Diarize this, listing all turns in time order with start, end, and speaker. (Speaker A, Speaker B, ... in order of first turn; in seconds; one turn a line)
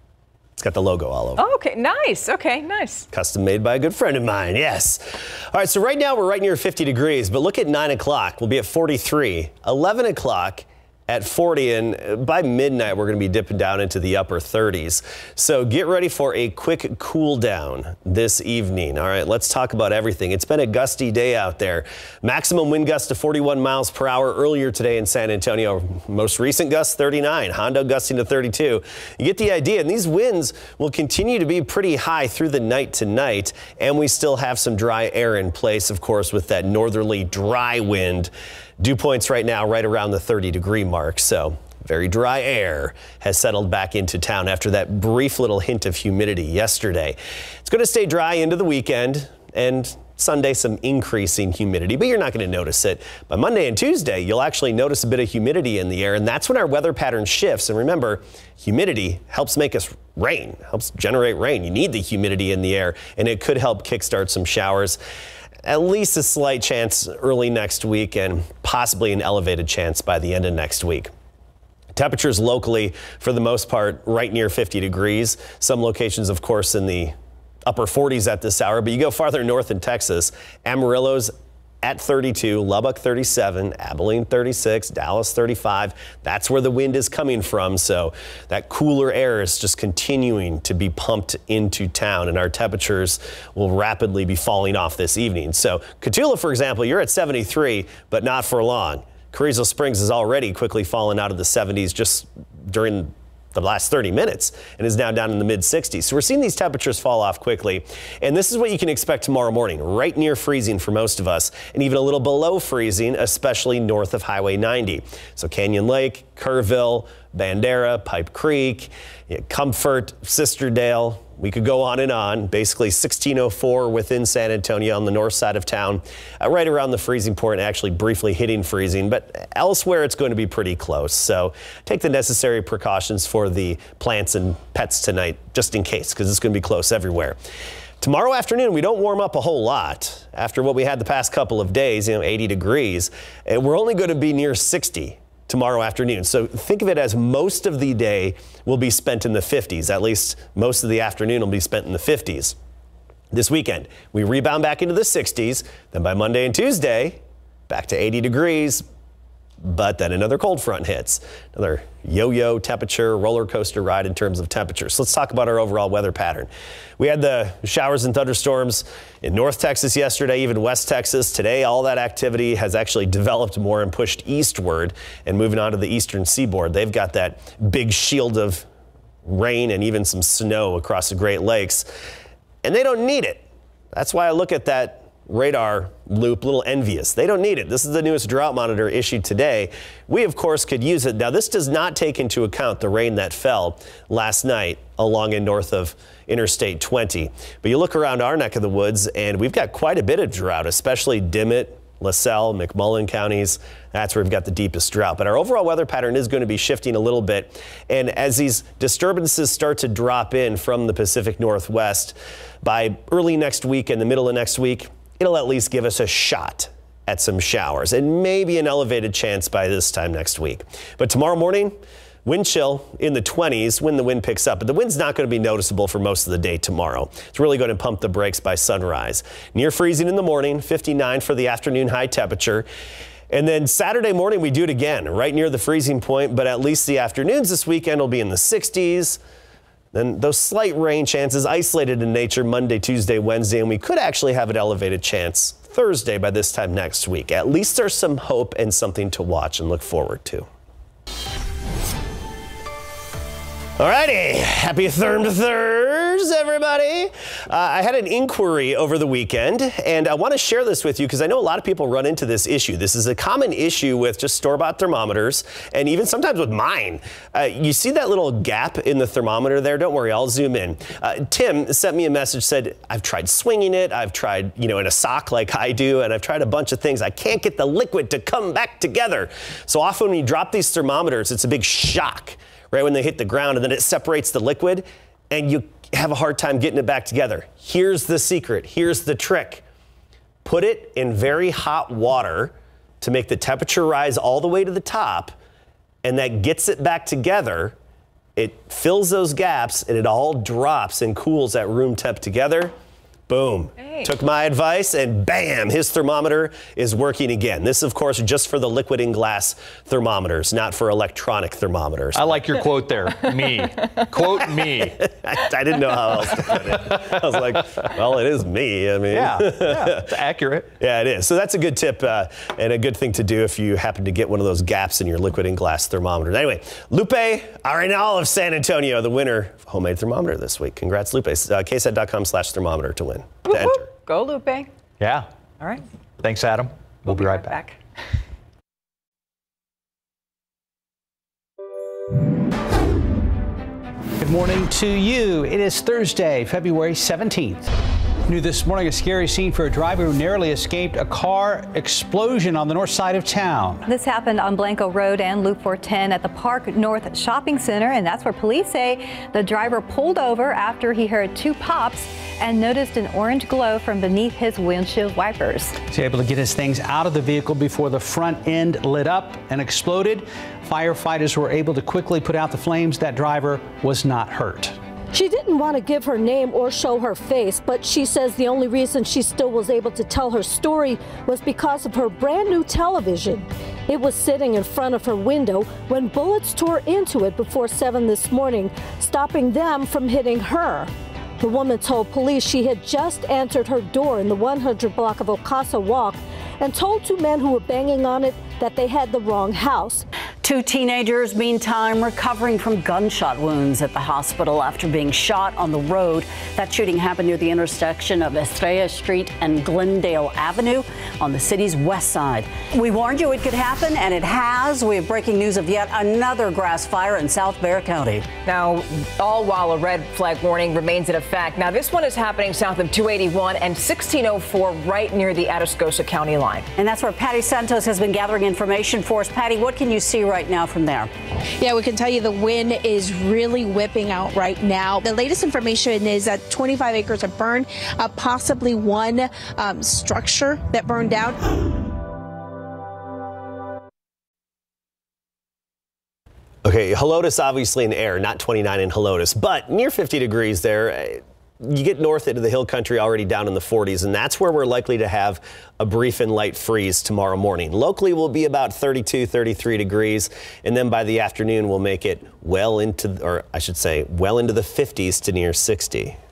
Speaker A: 0.6-1.4
Speaker B: 1.4-3.1
Speaker A: 3.1-65.0
Speaker A: 65.6-71.1
Speaker A: 71.9-77.1
Speaker A: 77.7-137.4
Speaker A: 138.0-152.6
Speaker A: 153.3-158.8
Speaker A: 159.6-178.7
Speaker A: 179.2-181.9
Speaker A: 182.6-232.7
Speaker A: 233.3-239.2
Speaker A: 239.9-250.5
Speaker A: 253.8-289.6
Speaker A: 290.4-295.3
Speaker A: 296.0-297.7
Speaker A: 298.4-302.7
Speaker A: 303.3-312.4
Speaker B: 303.8-304.1
Speaker C: 312.1-315.0
Speaker A: 315.0-320.1
Speaker C: 316.4-317.6
Speaker C: 319.1-320.7
Speaker A: 320.8-333.9
Speaker B: 333.5-334.7
Speaker C: 335.0-335.3
Speaker C: 336.2-337.6
Speaker B: 337.1-337.8
Speaker D: 344.2-347.7
Speaker D: 348.3-353.9
Speaker E: 353.9-365.8
Speaker D: 365.9-374.8
Speaker F: 375.1-400.0
Speaker G: 400.4-418.3
Speaker B: 418.4-426.7
Speaker G: 426.8-431.1
Speaker H: 431.6-441.4
Speaker A: 446.6-466.2